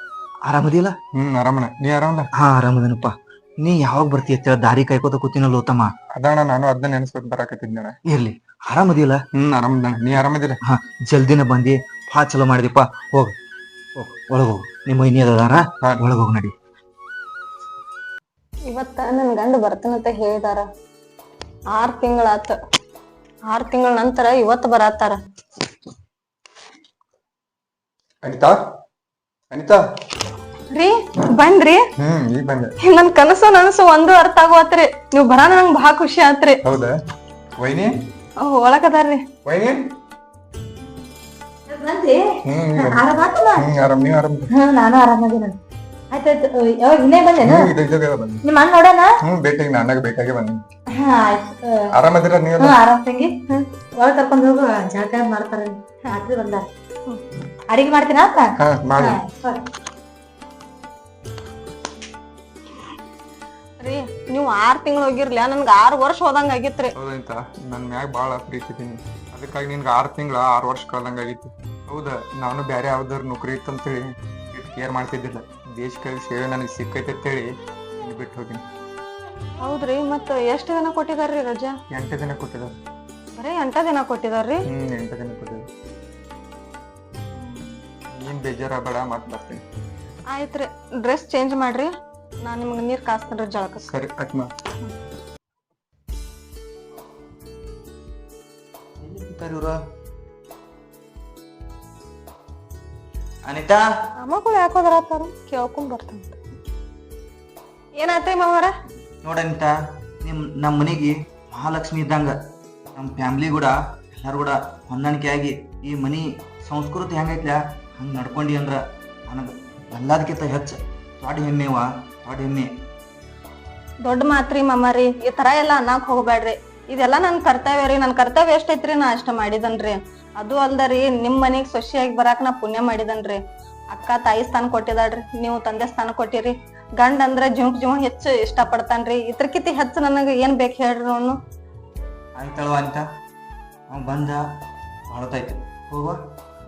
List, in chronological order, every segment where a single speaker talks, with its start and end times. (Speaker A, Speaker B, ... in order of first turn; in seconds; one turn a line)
Speaker A: 0.4-0.9
Speaker B: 1.1-2.3
Speaker A: 2.4-5.9
Speaker B: 6.1-8.0
Speaker A: 8.1-9.2
Speaker B: 9.3-10.6
Speaker A: 10.7-13.3
Speaker A: 13.9-16.5
Speaker C: 18.7-20.7
Speaker C: 21.7-22.6
Speaker C: 23.5-25.2
Speaker B: 28.2-28.6
Speaker B: 29.5-29.8
Speaker C: 30.7-31.8
Speaker B: 32.0-32.7
Speaker C: 32.8-36.6
Speaker B: 36.6-36.9
Speaker B: 37.6-37.9
Speaker C: 38.4-39.2
Speaker B: 39.4-39.8
Speaker D: 41.7-42.2
Speaker B: 42.4-43.0
Speaker D: 42.8-43.6
Speaker B: 43.5-44.5
Speaker D: 44.5-45.5
Speaker D: 46.1-47.7
Speaker B: 47.4-48.4
Speaker D: 48.4-49.1
Speaker B: 49.2-50.6
Speaker D: 51.0-51.8
Speaker B: 51.9-52.8
Speaker D: 52.6-56.6
Speaker D: 57.7-59.6
Speaker B: 58.6-59.2
Speaker C: 63.8-66.9
Speaker B: 67.0-77.5
Speaker B: 78.0-78.6
Speaker C: 79.6-81.7
Speaker B: 81.9-82.8
Speaker C: 83.4-84.7
Speaker B: 84.7-85.6
Speaker C: 87.4-87.8
Speaker B: 88.1-89.6
Speaker C: 90.3-91.9
Speaker C: 92.4-93.9
Speaker B: 93.8-94.5
Speaker A: 99.0-99.8
Speaker A: 103.5-103.8
Speaker C: 104.2-106.4
Speaker C: 108.0-108.7
Speaker A: 109.2-112.3
Speaker A: 113.0-122.8
Speaker C: 124.0-133.4
Speaker C: 133.9-141.4
Speaker A: 142.3-143.1
Speaker A: 143.9-144.4
Speaker A: 145.1-146.2